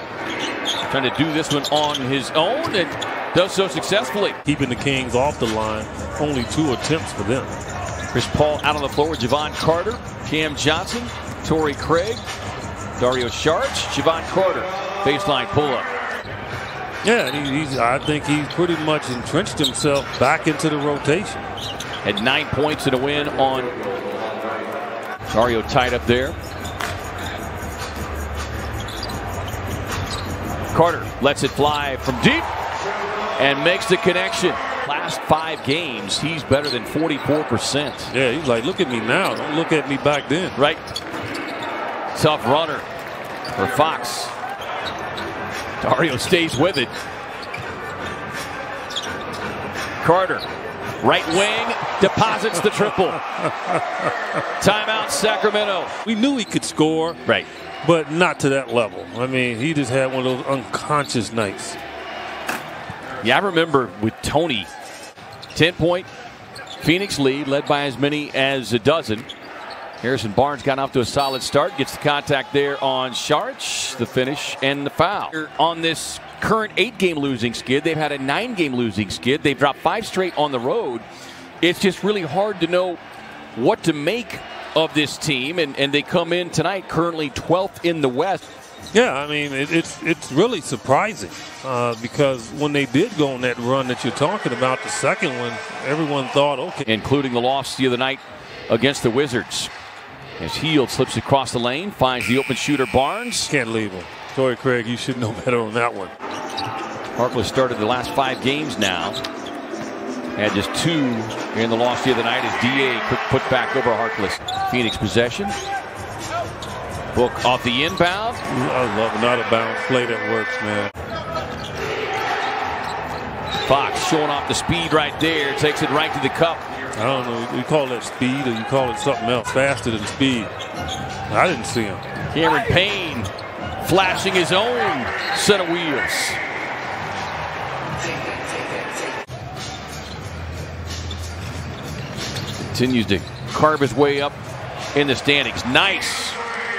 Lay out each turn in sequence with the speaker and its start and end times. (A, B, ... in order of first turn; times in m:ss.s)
0:00.8-0:04.4 A
0:04.4-0:07.6 B
0:08.1-0:12.2 A
0:13.0-0:15.9 A
0:17.0-0:21.5 B
0:22.0-0:23.7 A
0:25.3-0:26.4 A
0:30.7-0:32.5 A
0:33.4-0:38.1 A
0:38.1-0:40.6 B
0:40.6-0:40.8 A
0:42.1-0:42.8 A
0:43.5-0:44.3 A
0:45.8-0:46.9 A
0:50.0-0:50.4 A
0:51.0-0:53.2 A
0:53.3-0:54.1 B
0:54.6-0:55.9 A
0:56.0-0:57.2 B
0:57.8-1:01.8 B
1:03.2-1:04.7 A
1:05.5-1:06.1 A
1:06.8-1:09.3 A
1:10.0-1:21.0 A
1:21.6-1:23.0 A
1:23.5-1:28.4 A
1:28.9-1:36.8 B
1:36.8-1:39.7 A
1:40.4-1:43.5 A
1:43.5-1:46.1 B
1:47.2-1:49.2 A
1:50.4-1:55.5 A
1:57.1-1:58.4 A
1:58.5-2:00.9 B
2:03.6-2:06.6 A
2:06.9-2:10.5 B
2:11.3-2:12.0 B
2:12.3-2:16.4 A
2:22.7-2:24.4 A
2:24.9-2:26.4 A